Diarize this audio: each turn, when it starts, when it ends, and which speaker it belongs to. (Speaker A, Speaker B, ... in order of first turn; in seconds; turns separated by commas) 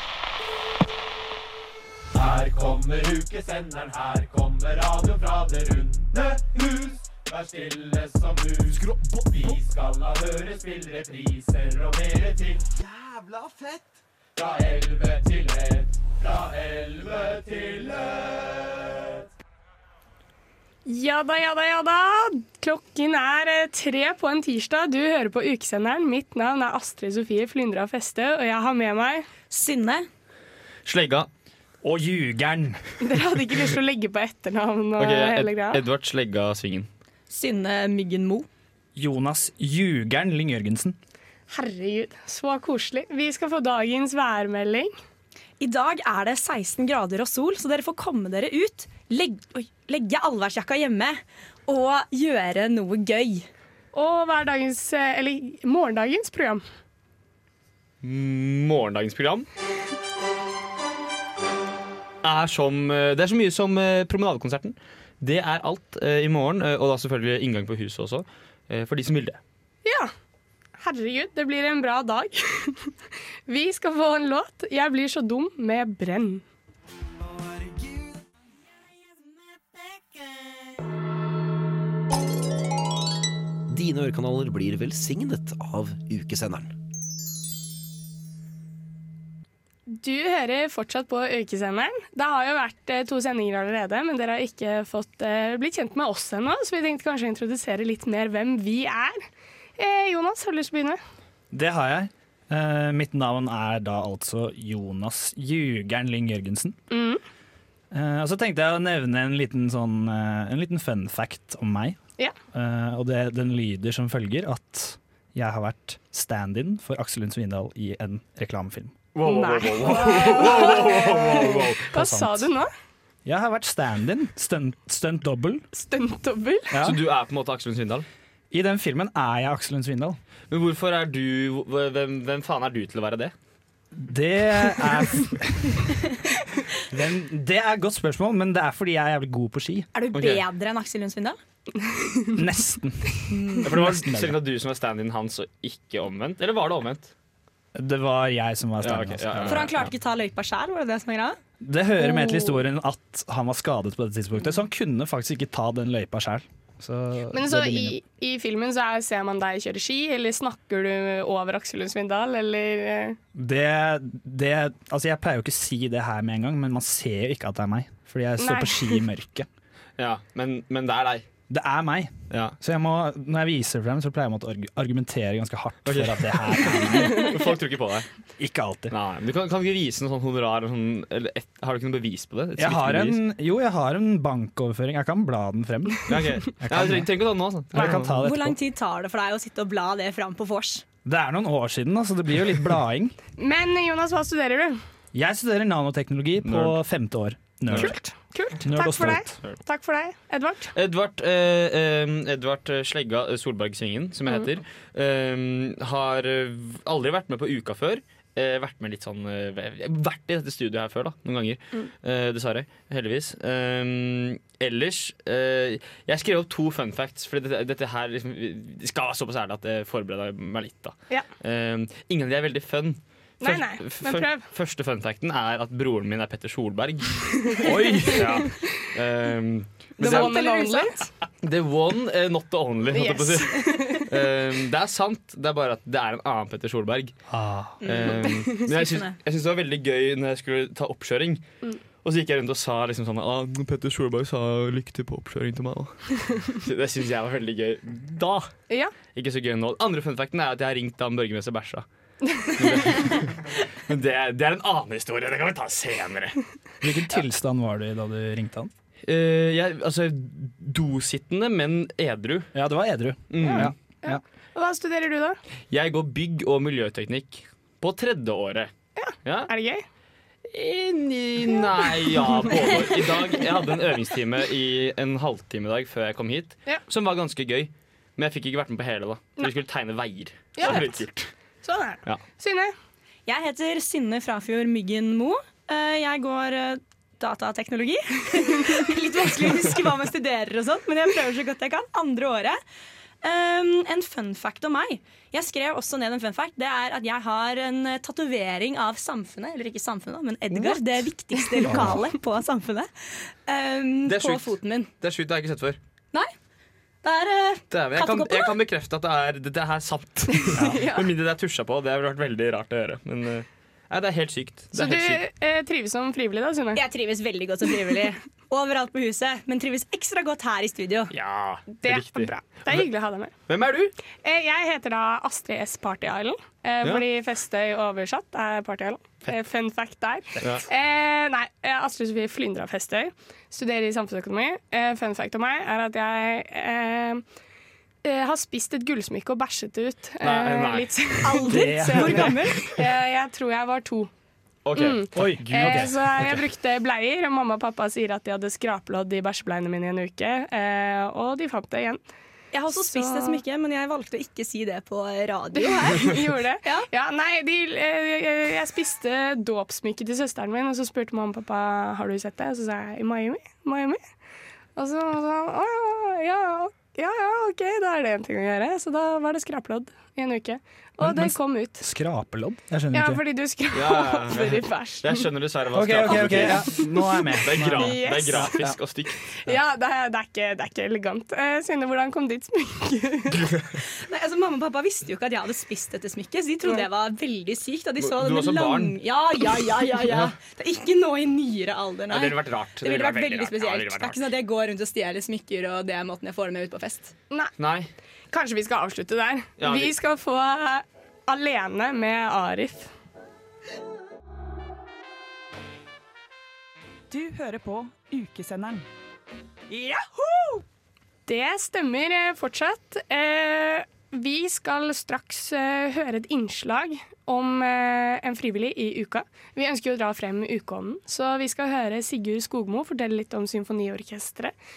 Speaker A: 2.1-12.7, Speaker A: 14.3-19.1, Speaker B: 20.9-29.2, Speaker C: 29.5-30.1, Speaker D: 30.9-31.3, Speaker E: 31.8-32.8, Speaker B: 33.0-35.8, Speaker D: 35.0-36.9, Speaker C: 37.3-38.5, Speaker E: 38.9-41.0, Speaker B: 41.5-44.9, Speaker C: 45.6-53.5, Speaker B: 53.9-56.6, Speaker D: 58.0-59.5, Speaker D: 62.2-69.4, Speaker B: 69.8-70.1, Speaker B: 70.8-72.9, Speaker B: 73.5-76.4, Speaker F: 83.7-86.7, Speaker B: 89.9-99.2, Speaker B: 99.8-101.0, Speaker E: 101.5-106.8, Speaker B: 106.9-107.2, Speaker E: 107.9-112.0, Speaker E: 112.5-119.0, Speaker D: 119.1-121.9, Speaker B: 119.2-122.7, Speaker E: 120.9-122.5, Speaker E: 123.2-125.6, Speaker B: 125.7-126.7, Speaker E: 126.7-127.0, Speaker D: 126.8-128.1, Speaker E: 128.5-130.2, Speaker D: 130.5-133.3, Speaker E: 133.9-136.0, Speaker E: 136.9-139.9, Speaker C: 139.9-141.4, Speaker D: 140.1-140.4, Speaker B: 141.7-142.3, Speaker E: 142.3-144.3, Speaker C: 143.3-143.6, Speaker D: 143.6-147.1, Speaker E: 147.7-149.7, Speaker D: 148.8-149.9, Speaker C: 149.4-151.4, Speaker E: 151.6-158.0, Speaker B: 152.0-152.6, Speaker B: 157.3-163.2, Speaker E: 163.3-169.5, Speaker B: 168.4-169.0, Speaker D: 170.0-171.2, Speaker E: 171.5-177.4, Speaker D: 172.3-172.6, Speaker D: 175.8-178.1, Speaker E: 178.4-178.9, Speaker D: 178.9-183.2, Speaker E: 182.6-187.1, Speaker D: 186.1-188.1, Speaker E: 187.7-188.6, Speaker B: 187.7-188.0, Speaker C: 188.2-190.8, Speaker E: 191.0-193.2, Speaker B: 193.4-194.8, Speaker E: 195.1-198.0, Speaker D: 196.4-196.8, Speaker B: 197.7-200.7, Speaker E: 198.6-199.3, Speaker D: 200.7-230.4, Speaker B: 223.4-224.4, Speaker B: 227.3-228.8, Speaker E: 227.7-228.1, Speaker B: 230.0-231.1, Speaker C: 230.1-230.9, Speaker D: 231.4-237.1, Speaker B: 232.9-234.1, Speaker E: 237.3-237.8, Speaker C: 237.8-239.2, Speaker D: 237.8-241.4, Speaker B: 238.1-238.7, Speaker D: 242.0-248.5, Speaker D: 249.1-251.8, Speaker B: 252.2-252.7, Speaker D: 252.5-256.4, Speaker E: 256.8-258.7, Speaker D: 259.1-262.5, Speaker E: 262.5-264.2, Speaker D: 263.3-263.7, Speaker B: 263.4-265.4, Speaker D: 265.7-268.7, Speaker B: 269.0-269.8, Speaker D: 269.2-269.5, Speaker D: 270.5-281.3, Speaker B: 280.6-281.0, Speaker B: 281.6-282.7, Speaker C: 283.2-292.6, Speaker C: 293.2-304.9, Speaker E: 301.7-301.9, Speaker D: 304.1-305.8, Speaker C: 307.0-308.6, Speaker D: 307.7-315.2, Speaker B: 310.4-311.1, Speaker B: 314.7-316.8, Speaker C: 316.7-321.1, Speaker D: 321.1-322.9, Speaker B: 321.7-323.3, Speaker D: 323.5-323.9, Speaker B: 324.2-337.2, Speaker D: 330.4-330.6, Speaker B: 338.0-344.1, Speaker D: 340.2-341.0, Speaker C: 341.2-342.7, Speaker E: 341.4-342.4, Speaker D: 344.6-345.9, Speaker B: 344.7-352.0, Speaker E: 345.1-346.4, Speaker C: 352.5-356.9, Speaker B: 352.7-353.4, Speaker B: 355.5-364.0, Speaker B: 364.8-371.8, Speaker E: 371.0-373.2, Speaker B: 372.9-375.3, Speaker D: 373.7-379.2, Speaker E: 375.7-378.5, Speaker B: 376.0-377.1, Speaker B: 377.6-378.7, Speaker B: 379.3-383.5, Speaker C: 384.0-397.1, Speaker D: 388.0-389.0, Speaker D: 390.0-390.3, Speaker D: 392.1-394.3, Speaker D: 397.6-397.9, Speaker B: 398.3-402.9, Speaker D: 399.6-399.9, Speaker G: 407.1-408.9, Speaker G: 409.7-410.6, Speaker B: 411.2-424.5